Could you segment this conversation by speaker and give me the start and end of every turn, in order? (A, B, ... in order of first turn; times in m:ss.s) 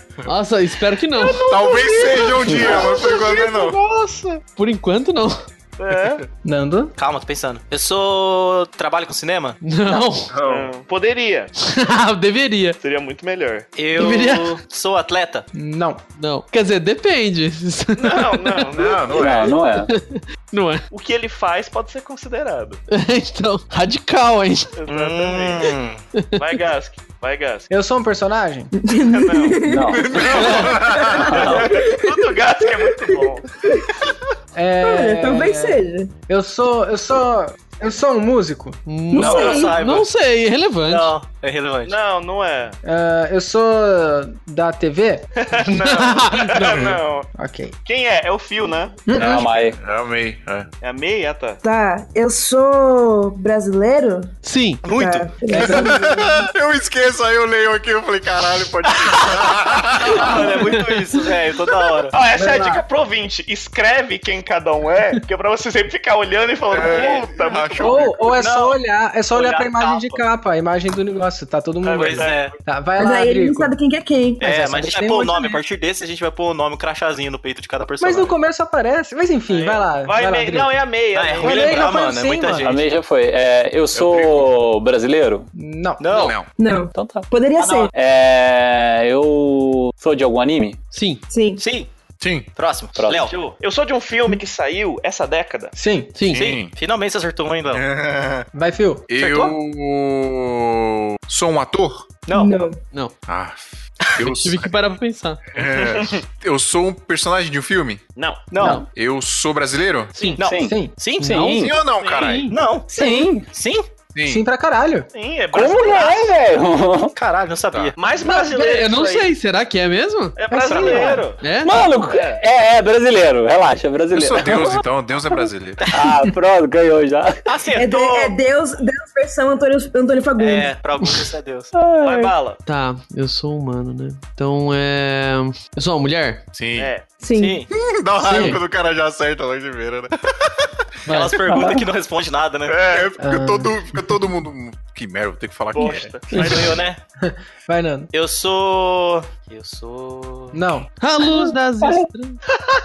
0:00.2-0:01.4 A
0:01.1-0:04.4 B
0:01.4-0:03.8 C
0:04.6-0:05.4 A
0:05.8-0:06.2 B
0:06.4-0:06.9 D
0:07.0-0:09.6 E
0:09.6-0:10.3 A
0:10.3-0:10.7 C
0:10.4-0:11.5 B
0:11.6-0:12.8 A
0:12.8-0:13.7 B
0:13.8-0:15.4 E
0:14.0-0:14.6 A
0:15.5-0:16.0 D
0:16.2-0:18.7 A
0:18.0-0:19.5 B
0:18.7-0:19.5 C
0:19.1-0:19.9 F
0:19.9-0:20.8 A
0:20.9-0:22.8 B
0:22.9-0:24.7 A
0:24.8-0:25.8 B
0:24.9-0:26.0 E
0:26.4-0:27.7 B
0:27.7-0:28.7 D
0:28.8-0:33.9 G
0:29.0-0:29.6 B
0:29.6-0:30.4 F
0:30.0-0:31.6 C
0:30.4-0:30.7 A
0:31.2-0:33.5 B
0:31.4-0:31.7 F
0:34.5-0:38.8 D
0:34.8-0:36.1 G
0:38.9-0:41.1 A
0:39.1-0:39.8 G
0:39.1-0:40.1 E
0:40.9-0:41.9 E
0:41.8-0:42.8 B
0:42.8-0:45.3 D
0:45.4-0:47.3 B
0:45.6-0:46.9 A
0:47.3-0:47.7 D
0:47.8-0:49.0 B
0:49.1-0:49.4 D
0:49.1-0:49.8 F
0:49.2-0:50.7 C
0:50.8-0:51.6 B
0:51.6-0:54.3 G
0:54.4-0:54.8 A
0:54.8-0:55.3 E
0:54.9-0:56.2 G
0:55.5-0:56.4 D
0:55.6-1:00.6 C
0:58.9-1:02.2 E
1:02.1-1:08.1 B
1:02.3-1:02.8 D
1:06.7-1:08.2 C
1:07.8-1:13.7 D
1:08.3-1:08.8 E
1:09.3-1:10.2 E
1:11.8-1:12.5 B
1:11.9-1:12.5 E
1:13.0-1:14.5 G
1:14.4-1:15.6 D
1:14.4-1:18.3 E
1:18.0-1:20.8 D
1:19.5-1:19.8 E
1:20.0-1:21.9 B
1:21.1-1:22.9 E
1:21.4-1:22.7 D
1:22.6-1:25.5 F
1:23.9-1:24.5 C
1:25.5-1:26.0 D
1:26.0-1:26.4 E
1:26.1-1:26.5 C
1:26.6-1:27.9 G
1:26.9-1:30.8 F
1:30.9-1:31.2 A
1:31.3-1:31.6 G
1:31.6-1:31.9 E
1:32.2-1:32.5 C
1:32.6-1:33.4 E
1:33.0-1:33.3 F
1:33.2-1:35.7 B
1:35.8-1:36.1 D
1:36.2-1:36.4 A
1:36.3-1:36.7 C
1:36.3-1:37.8 E
1:37.7-1:38.4 C
1:38.5-1:39.0 D
1:39.1-1:42.1 C
1:39.1-1:39.6 E
1:42.3-1:42.5 B
1:42.3-1:42.8 G
1:43.3-1:44.7 C
1:44.3-1:45.4 A
1:45.5-1:48.0 C
1:45.6-1:46.2 B
1:48.2-1:48.5 B
1:48.5-1:48.8 E
1:48.9-1:50.1 C
1:50.2-1:51.4 E
1:50.4-1:51.8 F
1:50.6-1:50.9 D
1:51.2-1:52.5 A
1:51.5-1:52.5 C
1:52.0-1:52.3 B
1:52.5-1:53.9 E
1:52.9-1:53.4 F
1:53.0-1:53.2 D
1:54.1-1:54.4 C
1:54.2-1:55.1 D
1:55.1-1:56.3 B
1:55.5-1:57.1 F
1:57.1-1:57.9 E
1:58.0-1:59.3 B
1:58.2-2:00.4 A
2:00.4-2:01.4 B
2:00.5-2:01.2 D
2:00.7-2:01.2 E
2:01.4-2:01.8 A
2:01.6-2:04.8 F
2:04.1-2:05.8 C
2:05.8-2:06.1 E
2:05.9-2:07.4 F
2:07.5-2:08.3 E
2:07.7-2:10.7 G
2:10.4-2:11.7 E
2:11.7-2:12.3 F
2:12.0-2:12.6 B
2:12.6-2:16.4 A
2:16.5-2:16.9 C
2:16.8-2:17.0 B
2:17.2-2:17.6 G
2:17.3-2:17.7 E
2:17.7-2:20.7 C
2:18.2-2:18.6 D
2:18.3-2:18.6 A
2:21.0-2:21.4 A
2:21.1-2:22.8 E
2:21.5-2:21.8 F
2:22.7-2:23.1 B
2:22.8-2:26.1 C
2:23.2-2:23.8 D
2:25.7-2:26.8 B
2:26.3-2:27.0 E
2:27.2-2:28.1 D
2:28.1-2:30.6 E
2:30.5-2:30.9 D
2:31.0-2:32.4 A